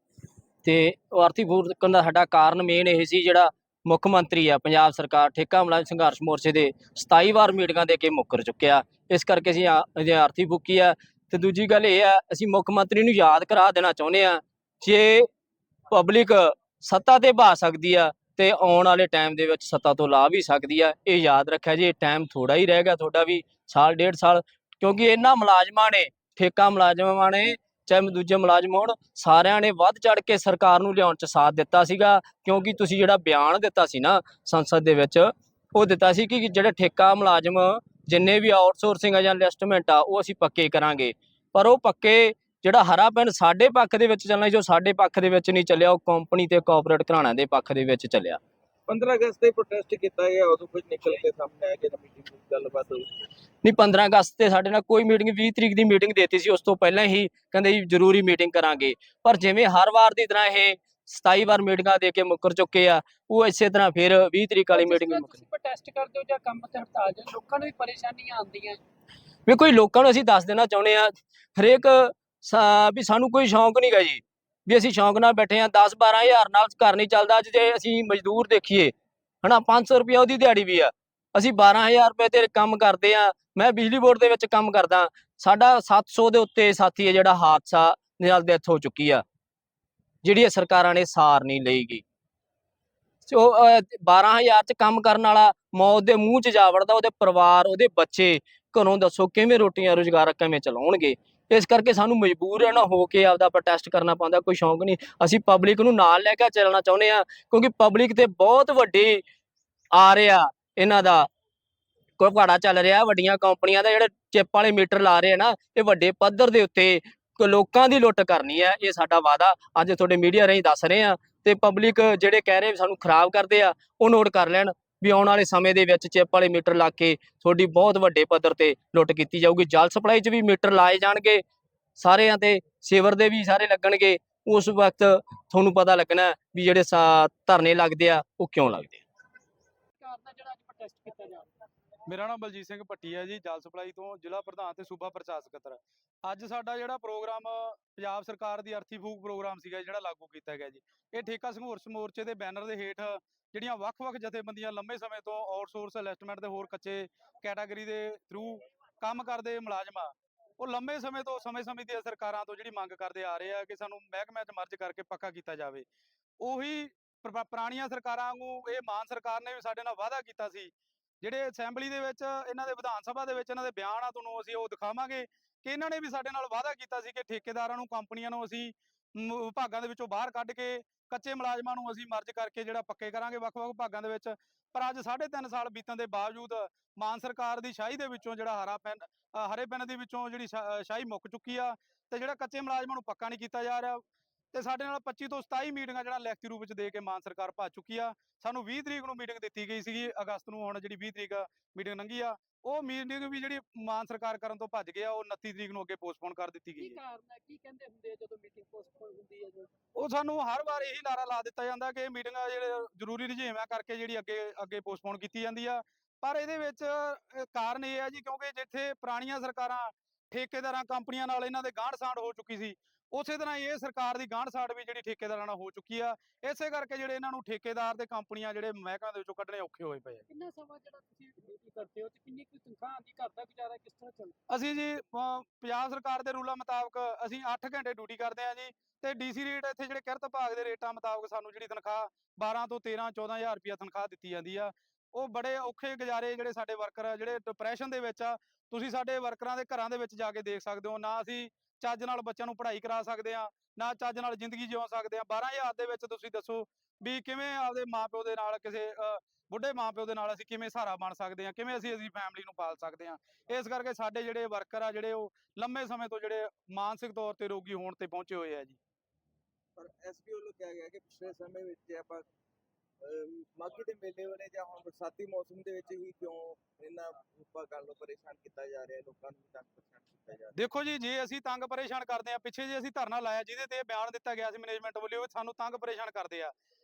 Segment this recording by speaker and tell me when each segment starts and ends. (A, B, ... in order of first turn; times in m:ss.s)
0:00.6-0:15.3 A
0:15.9-0:48.4 A
0:48.9-0:53.0 B
0:53.6-1:05.4 A
1:04.7-1:08.8 C
1:09.5-1:29.2 A
1:30.2-1:32.0 A
1:33.3-1:49.2 A
1:49.9-1:51.3 A
1:52.2-2:11.4 A
2:12.0-2:19.0 A
2:20.0-2:21.5 C
2:22.1-2:45.9 D
2:46.4-3:27.0 D
3:26.8-3:29.7 C
3:30.0-3:50.2 D
3:50.3-3:54.3 C
3:54.5-4:28.8 D
4:29.8-4:32.2 B
4:33.0-4:40.6 B
4:40.6-4:46.5 D